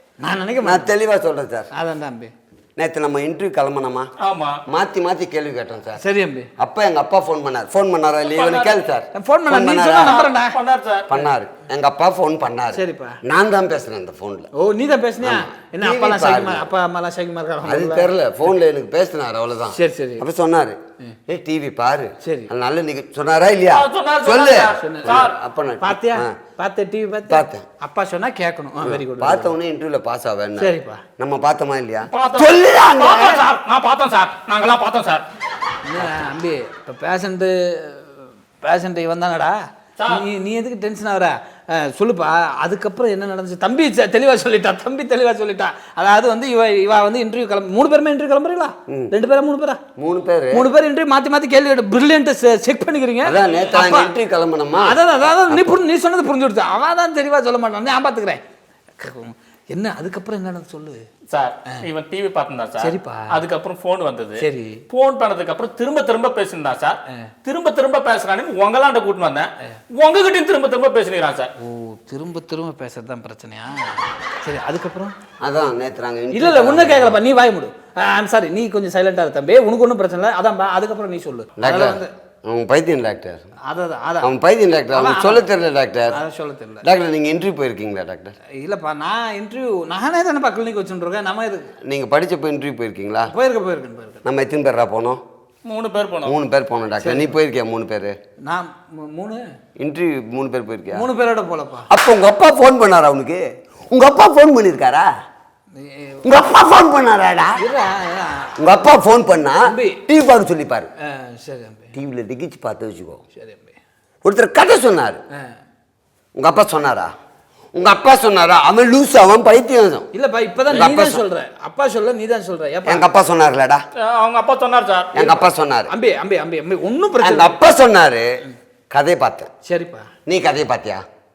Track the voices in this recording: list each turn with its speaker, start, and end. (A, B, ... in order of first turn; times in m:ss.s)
0:00.2-0:00.9 A
0:00.6-0:01.7 B
0:01.7-0:02.3 A
0:02.8-0:04.1 B
0:04.2-0:04.6 C
0:04.7-0:06.0 B
0:06.0-0:06.5 A
0:06.6-0:10.2 B
0:08.3-0:08.8 C
0:09.2-0:10.6 A
0:10.0-0:11.1 C
0:11.1-0:14.5 B
0:12.7-0:13.2 A
0:14.6-0:18.1 A
0:15.2-0:16.7 B
0:17.6-0:26.4 B
0:19.7-0:20.2 A
0:22.2-0:22.5 A
0:23.7-0:25.3 C
0:24.8-0:25.2 A
0:25.8-0:29.5 A
0:27.3-0:27.6 B
0:28.8-0:33.3 B
0:30.6-0:31.0 A
0:32.1-0:35.2 C
0:35.8-0:39.5 A
0:36.0-0:36.2 B
0:40.1-0:49.8 A
0:50.0-0:50.7 B
0:50.5-0:54.1 A
0:53.2-0:55.0 B
0:54.8-0:58.4 A
0:55.5-0:55.8 B
0:59.0-1:01.0 A
1:01.3-1:11.5 C
1:02.8-1:03.4 A
1:04.4-1:04.8 A
1:11.6-1:15.1 A
1:15.4-1:17.2 B
1:16.3-1:22.1 A
1:21.6-1:23.5 B
1:23.7-1:24.3 A
1:24.2-1:26.2 B
1:24.9-1:25.4 A
1:26.1-1:26.8 A
1:26.8-1:28.3 B
1:28.6-1:31.7 A
1:31.9-1:33.3 B
1:33.3-1:34.2 A
1:34.2-1:35.2 B
1:35.7-1:36.4 C
1:36.2-1:38.2 B
1:37.0-1:37.3 A
1:38.5-1:39.4 A
1:39.8-1:41.1 B
1:40.9-1:41.9 A
1:41.9-1:45.1 B
1:45.7-1:46.2 A
1:46.2-1:47.6 B
1:47.6-1:48.6 A
1:48.6-1:50.9 B
1:49.7-1:50.0 A
1:51.1-1:51.9 A
1:51.9-1:53.2 B
1:53.4-1:53.7 A
1:54.2-1:55.2 B
1:56.4-1:57.1 B
1:57.7-2:00.1 B
2:00.1-2:03.0 A
2:00.7-2:01.2 B
2:02.9-2:03.8 B
2:04.0-2:05.1 C
2:05.1-2:05.9 B
2:05.9-2:07.5 A
2:07.2-2:08.3 B
2:08.9-2:09.5 B
2:09.6-2:10.1 A
2:10.3-2:11.0 B